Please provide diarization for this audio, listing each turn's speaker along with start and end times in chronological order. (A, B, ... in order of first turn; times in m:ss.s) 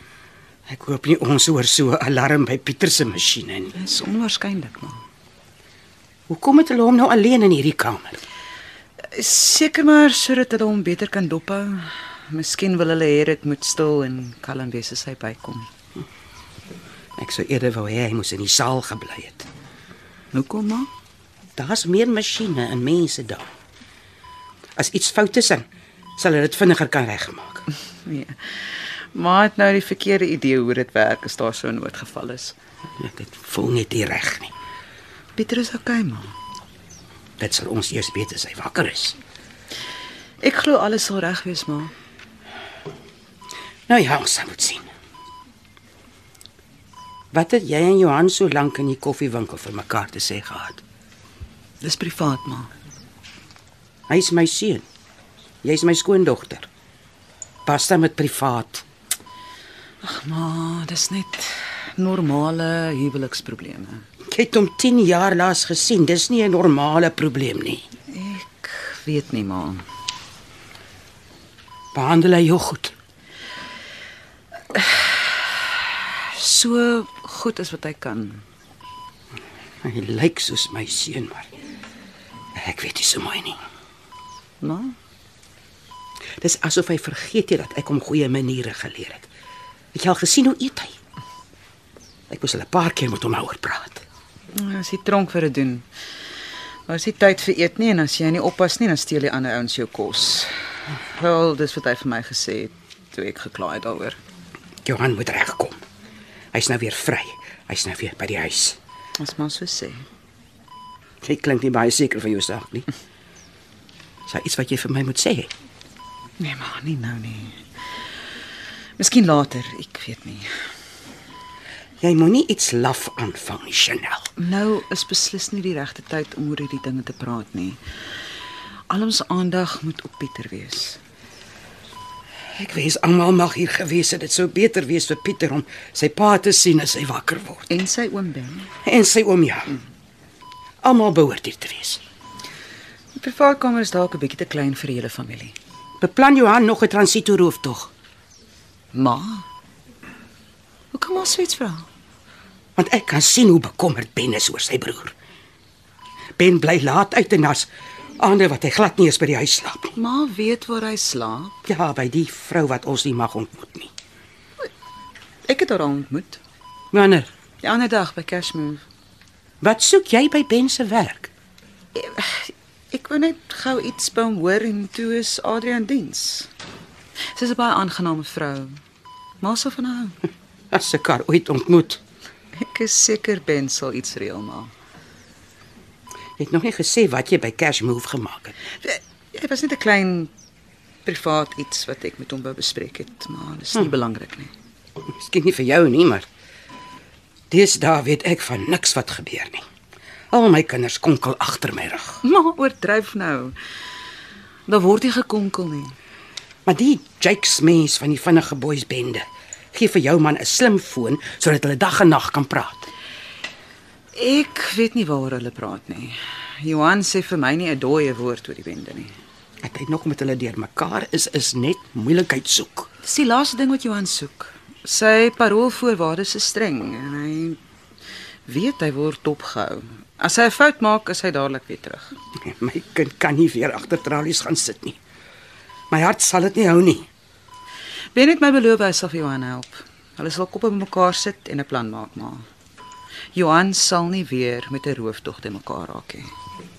0:00.7-0:03.7 A
0:03.7-0:05.0 B
0:06.3-0:08.2 A
0:09.1-0:15.7 B
0:17.2-0:19.5 A
0:20.3-0:20.9 B
0:21.6-0:23.5 A
0:24.8-0:25.6 A
0:26.2-0:27.7 A
0:28.0-0:32.6 B
0:33.0-0:34.5 A
0:35.4-0:36.3 B
0:37.4-0:39.2 A
0:40.4-0:41.9 B
0:43.9-0:44.9 A
0:47.3-0:50.8 A
0:51.8-0:52.7 B
0:54.1-0:54.8 A
0:55.6-0:56.7 A
0:57.7-0:58.8 A
1:00.0-1:04.0 B
1:04.3-1:07.8 A
1:08.1-1:09.8 B
1:11.9-1:12.9 A
1:14.7-1:18.4 B
1:19.8-1:21.5 A
1:22.6-1:23.6 A
1:24.6-1:25.0 B
1:26.4-1:29.3 A
1:29.9-1:31.0 A
1:32.3-1:34.0 A
1:34.5-1:35.9 B
1:36.9-1:44.2 B
1:44.8-1:45.8 A
1:46.5-1:48.8 A
1:49.2-1:50.0 B
1:51.2-1:52.9 A
1:54.3-1:55.5 A
1:56.4-1:57.6 B
1:59.0-2:00.5 B
2:02.0-2:04.3 A
2:04.4-2:07.8 B
2:08.9-2:11.0 B
2:12.5-2:17.7 A
2:17.7-2:18.7 B
2:18.8-2:19.8 A
2:20.8-2:22.0 A
2:23.2-2:25.6 B
2:26.0-2:27.9 A
2:28.9-2:29.4 B
2:30.9-2:31.9 B
2:32.8-2:35.2 A
2:36.4-2:40.0 A
2:40.0-2:41.6 B
2:41.7-2:43.9 A
2:45.5-2:46.4 B
2:46.9-2:47.3 A
2:47.6-2:48.8 B
2:49.6-2:51.3 A
2:52.0-2:56.5 B
2:57.3-2:58.8 B
2:59.4-3:00.2 B
3:00.7-3:02.0 A
3:02.5-3:04.7 B
3:06.4-3:08.6 A
3:08.8-3:10.3 B
3:11.0-3:14.5 B
3:15.1-3:16.3 A
3:17.5-3:19.6 A
3:20.3-3:22.2 A
3:22.2-3:23.6 B
3:24.7-3:25.9 B
3:26.7-3:32.9 A
3:34.1-3:39.1 B
3:39.6-3:42.9 A
3:43.0-3:47.6 B
3:48.5-3:52.1 B
3:52.4-3:55.0 A
3:55.9-3:57.1 A
3:58.1-4:02.4 B
4:03.3-4:06.3 B